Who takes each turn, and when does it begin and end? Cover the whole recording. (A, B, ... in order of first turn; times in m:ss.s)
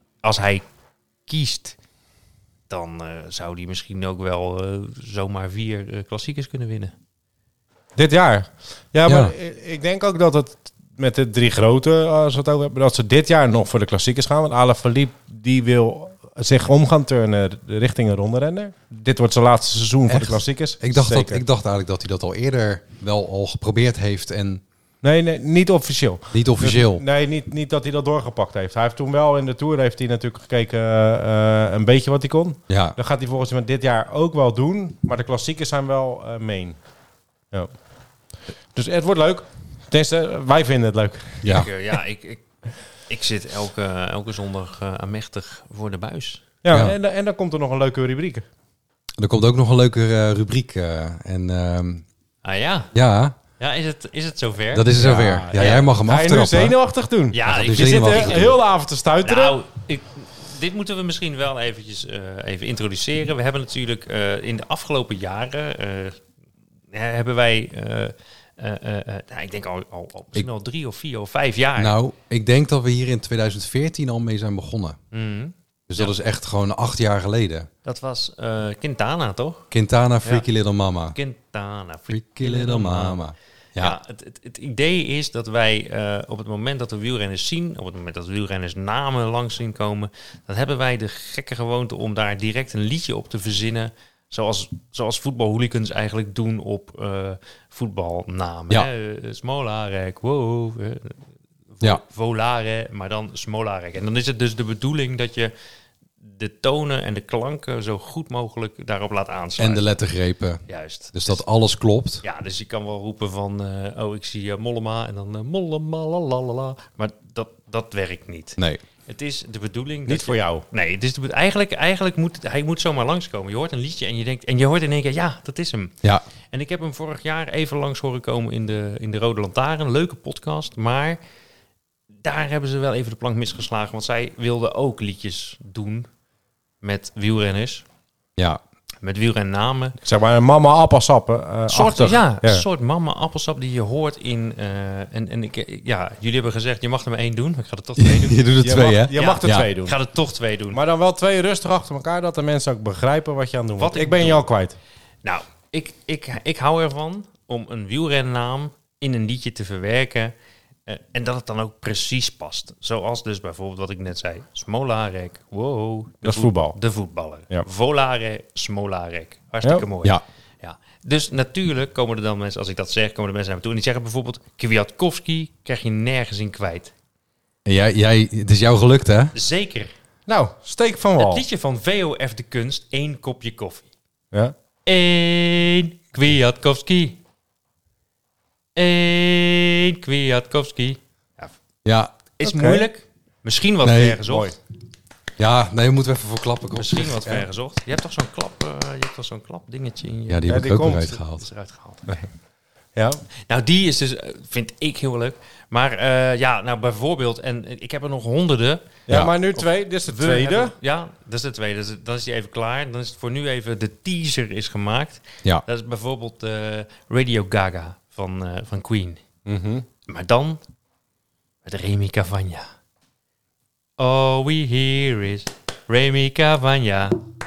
0:00.2-0:00.6 A
0:01.3-0:01.8 A
0:02.7-0:06.9 A
0:08.0-0:21.4 B
0:09.0-0:09.3 C
0:20.1-0:24.6 C
0:25.0-0:36.8 B
0:26.3-0:27.0 C
0:32.7-0:33.0 C
0:38.7-0:41.6 B
0:41.4-0:46.5 A
0:46.6-0:48.4 B
0:49.2-0:52.0 C
0:52.4-0:52.9 A
0:52.9-0:53.4 C
0:53.6-0:54.9 A
0:54.7-0:56.8 C
0:54.9-0:59.6 B
0:55.5-0:55.9 A
0:57.3-0:58.6 A
0:57.4-0:58.6 C
0:59.2-1:06.2 A
1:06.9-1:12.0 A
1:11.8-1:15.0 C
1:15.1-1:16.1 A
1:15.9-1:17.7 C
1:17.8-1:19.7 A
1:19.7-1:21.2 C
1:20.2-1:20.5 A
1:21.1-1:23.2 A
1:22.1-1:24.0 C
1:23.8-1:41.2 A
1:41.8-1:45.5 A
1:46.2-1:49.9 A
1:49.6-1:50.6 C
1:50.7-1:51.4 A
1:51.1-1:52.2 C
1:52.2-2:06.0 A
1:58.6-1:58.8 C
2:00.1-2:00.7 B
2:06.5-2:11.2 A
2:12.2-2:16.1 A
2:16.8-2:17.8 A
2:19.0-2:20.0 A
2:20.0-2:22.6 B
2:21.7-2:28.5 A
2:28.0-2:29.7 C
2:28.6-2:30.0 B
2:29.1-2:30.8 A
2:30.7-2:34.8 B
2:33.8-2:34.5 A
2:35.2-2:40.3 A
2:40.9-2:56.9 A
2:46.2-2:46.8 B
2:57.7-2:59.4 C
2:59.3-2:59.9 A
3:00.3-3:01.4 B
3:01.2-3:03.9 A
3:04.9-3:07.2 A
3:08.8-3:11.5 A
3:11.8-3:12.1 C
3:12.4-3:14.6 A
3:12.4-3:12.9 B
3:13.8-3:14.2 C
3:14.2-3:14.6 B
3:15.4-3:17.5 C
3:16.7-3:22.3 A
3:20.3-3:21.5 C
3:20.5-3:21.1 B
3:23.0-3:23.2 B
3:23.5-3:39.2 A
3:29.1-3:30.7 B
3:39.5-3:39.9 B
3:40.0-3:40.6 A
3:41.7-3:42.6 A
3:44.0-3:47.2 A